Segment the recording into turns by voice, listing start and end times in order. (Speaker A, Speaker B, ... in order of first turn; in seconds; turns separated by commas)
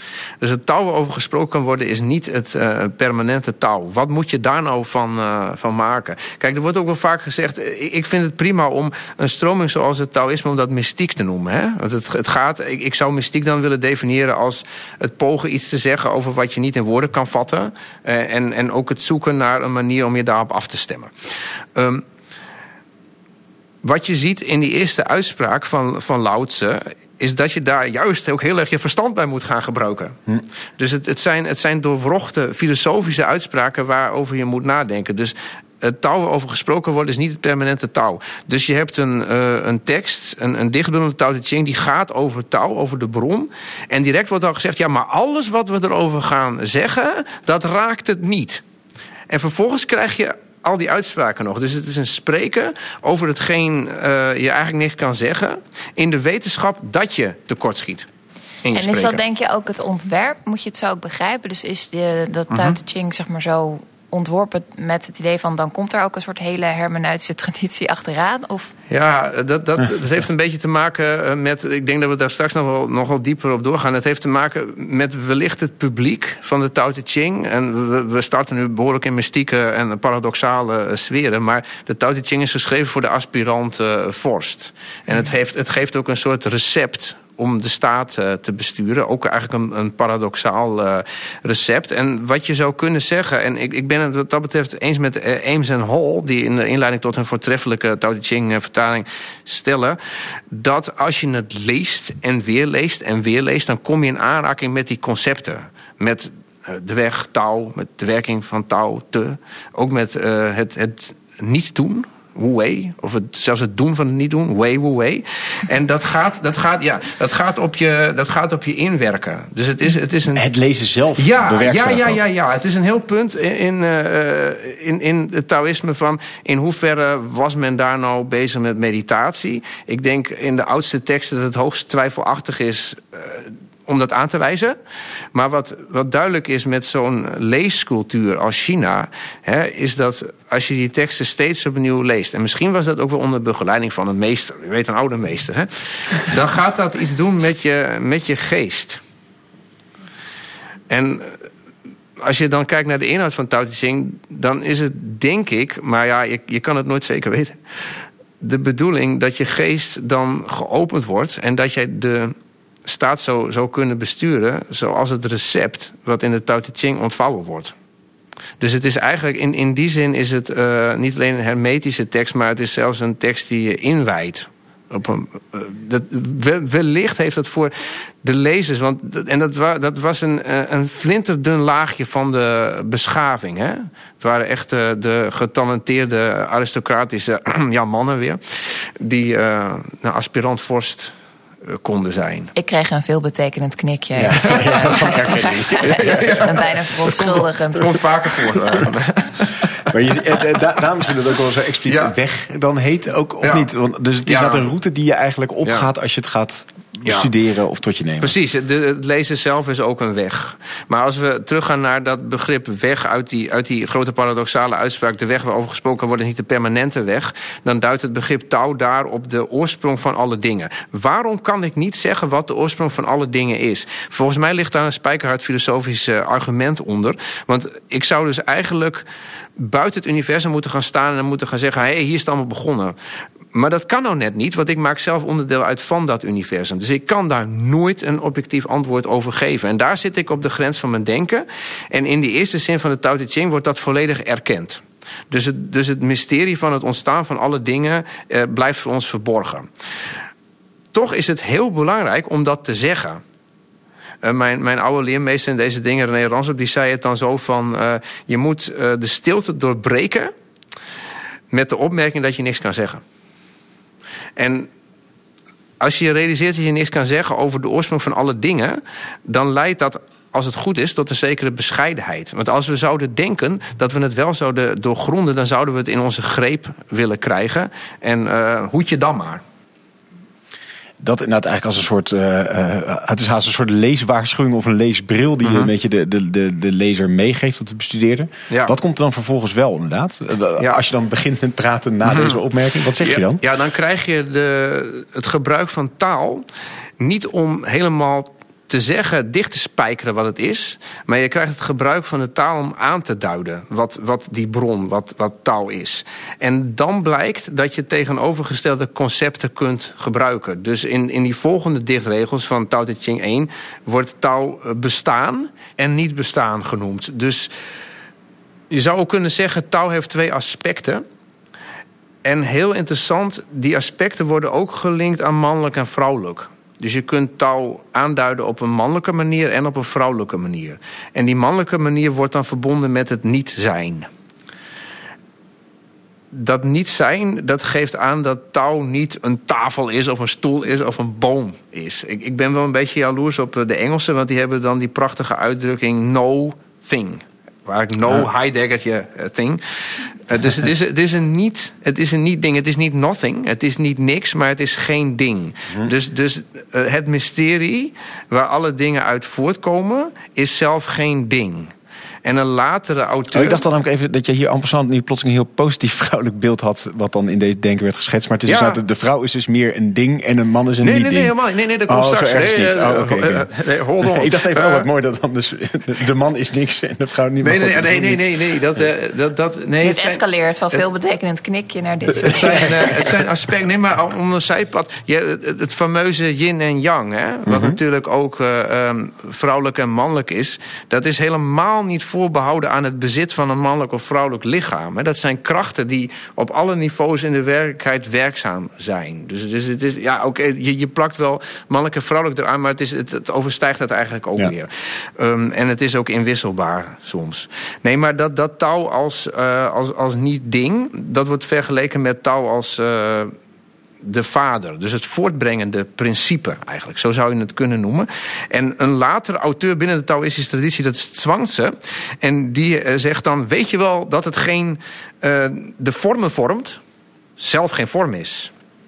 Speaker A: 0.4-21.1, Speaker A: 21.7-22.0, Speaker A: 23.8-30.2, Speaker A: 30.8-48.6, Speaker A: 49.3-58.1, Speaker A: 58.6-59.2, Speaker B: 58.7-68.7, Speaker A: 62.5-62.8, Speaker A: 68.9-100.0, Speaker A: 100.5-120.4, Speaker C: 120.3-122.2, Speaker A: 121.2-134.8, Speaker A: 135.3-149.0, Speaker A: 150.9-151.4, Speaker A: 152.2-157.6, Speaker A: 158.4-162.3, Speaker A: 162.8-167.7, Speaker A: 168.6-177.7, Speaker A: 178.2-191.1, Speaker A: 191.7-192.5, Speaker B: 192.6-197.9, Speaker C: 194.2-196.7, Speaker A: 194.5-199.9, Speaker C: 199.8-208.3, Speaker A: 201.8-202.1, Speaker A: 203.4-203.7, Speaker A: 204.2-204.7, Speaker A: 205.6-205.9, Speaker A: 208.2-229.0, Speaker A: 229.6-232.9, Speaker A: 233.5-249.7, Speaker A: 250.9-253.2, Speaker A: 254.2-260.3, Speaker A: 261.5-263.0, Speaker A: 264.4-264.7, Speaker A: 265.8-279.4, Speaker C: 281.0-293.4, Speaker A: 285.4-285.7, Speaker A: 288.5-288.7, Speaker A: 292.1-292.4, Speaker A: 293.0-296.4, Speaker A: 297.0-317.5, Speaker A: 318.7-321.0, Speaker A: 322.2-334.1, Speaker A: 336.3-361.7, Speaker A: 362.2-363.6, Speaker C: 363.3-371.3, Speaker A: 368.5-368.8, Speaker A: 370.8-374.9, Speaker C: 371.9-373.5, Speaker C: 374.0-378.8, Speaker A: 377.4-380.2, Speaker B: 379.8-383.1, Speaker A: 382.2-413.3, Speaker C: 387.4-387.8, Speaker A: 414.0-426.8, Speaker A: 427.4-428.5